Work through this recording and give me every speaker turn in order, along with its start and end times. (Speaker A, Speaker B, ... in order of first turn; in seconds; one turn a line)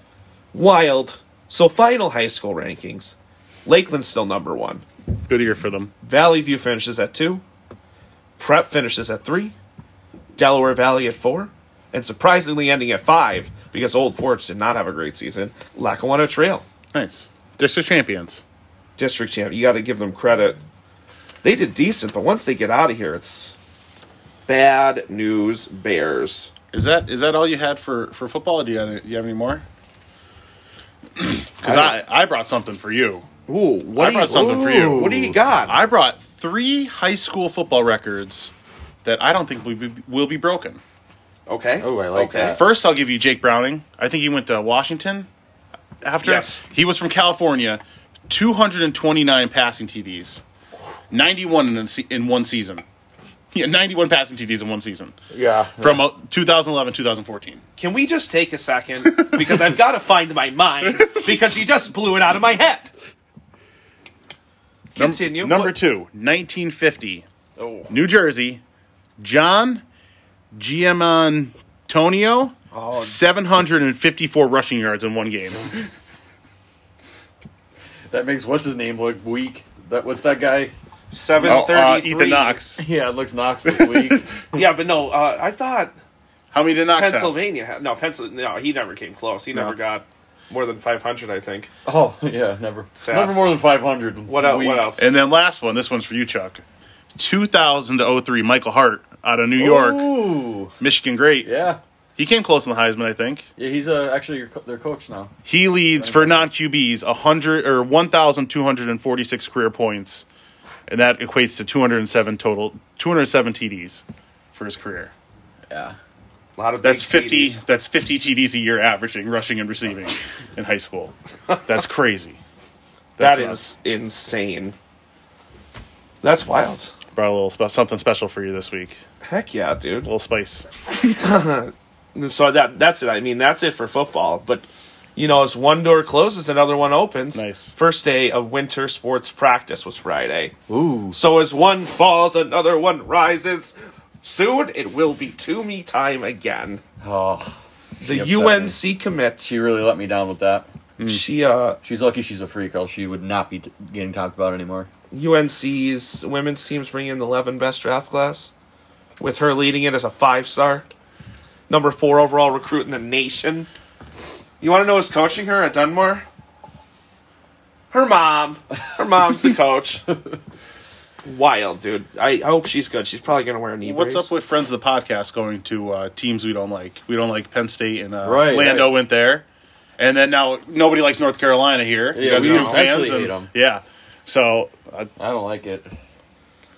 Speaker A: 0.5-4.8
Speaker B: 5.2-5.9
Speaker A: 6.0-7.4
Speaker A: 8.4-9.5
Speaker A: 10.4-16.6
Speaker B: 16.9-18.4
Speaker A: 19.0-20.6
Speaker A: 21.4-23.6
Speaker A: 24.5-26.5
Speaker B: 26.7-29.6
Speaker B: 31.2-33.3
Speaker A: 33.5-35.8
Speaker B: 34.0-38.5
Speaker C: 34.4-35.3
Speaker B: 39.0-40.8
Speaker A: 41.5-42.6
Speaker C: 41.8-42.6
Speaker B: 42.5-45.3
Speaker B: 46.0-50.4
Speaker A: 46.2-46.6
Speaker B: 51.1-52.8
Speaker B: 53.5-55.1
Speaker C: 55.3-56.0
Speaker B: 55.8-57.6
Speaker A: 57.8-62.9
Speaker B: 59.2-59.6
Speaker A: 65.0-65.8
Speaker B: 65.0-67.2
Speaker A: 67.6-67.9
Speaker B: 67.9-68.6
Speaker B: 69.2-69.8
Speaker B: 70.5-75.9
Speaker A: 72.7-73.2
Speaker C: 78.1-80.7
Speaker A: 81.1-82.6
Speaker B: 81.4-82.8
Speaker C: 82.8-84.6
Speaker B: 83.7-84.2
Speaker A: 84.5-85.9
Speaker B: 86.5-87.3
Speaker A: 87.0-91.7
Speaker C: 91.8-95.0
Speaker A: 93.0-93.4
Speaker A: 94.3-95.1
Speaker B: 95.0-96.6
Speaker B: 97.2-100.1
Speaker C: 99.6-100.8
Speaker B: 100.8-101.5
Speaker C: 101.4-101.8
Speaker B: 102.2-103.5
Speaker C: 103.6-105.3
Speaker B: 105.5-110.3
Speaker C: 106.0-106.5
Speaker B: 110.9-115.1
Speaker C: 115.7-116.0
Speaker A: 116.6-117.6
Speaker B: 116.8-121.1
Speaker B: 121.7-122.4
Speaker B: 123.2-123.6
Speaker A: 123.2-124.8
Speaker A: 126.2-126.9
Speaker B: 127.1-129.0
Speaker A: 129.2-130.1
Speaker B: 130.0-131.2
Speaker A: 131.2-134.7
Speaker A: 135.2-140.6
Speaker B: 137.3-137.8
Speaker C: 140.7-141.2
Speaker A: 141.1-146.8
Speaker C: 147.0-148.8
Speaker A: 148.0-149.5
Speaker C: 149.4-150.7
Speaker A: 151.0-151.8
Speaker C: 151.8-154.9
Speaker A: 155.1-158.5
Speaker A: 159.2-160.8
Speaker A: 161.7-163.7
Speaker A: 164.6-166.2
Speaker A: 167.9-170.1
Speaker A: 171.2-174.3
Speaker B: 173.8-179.5
Speaker C: 178.2-179.0
Speaker B: 180.0-185.1
Speaker C: 182.1-183.5
Speaker A: 182.3-182.8
Speaker C: 185.2-185.9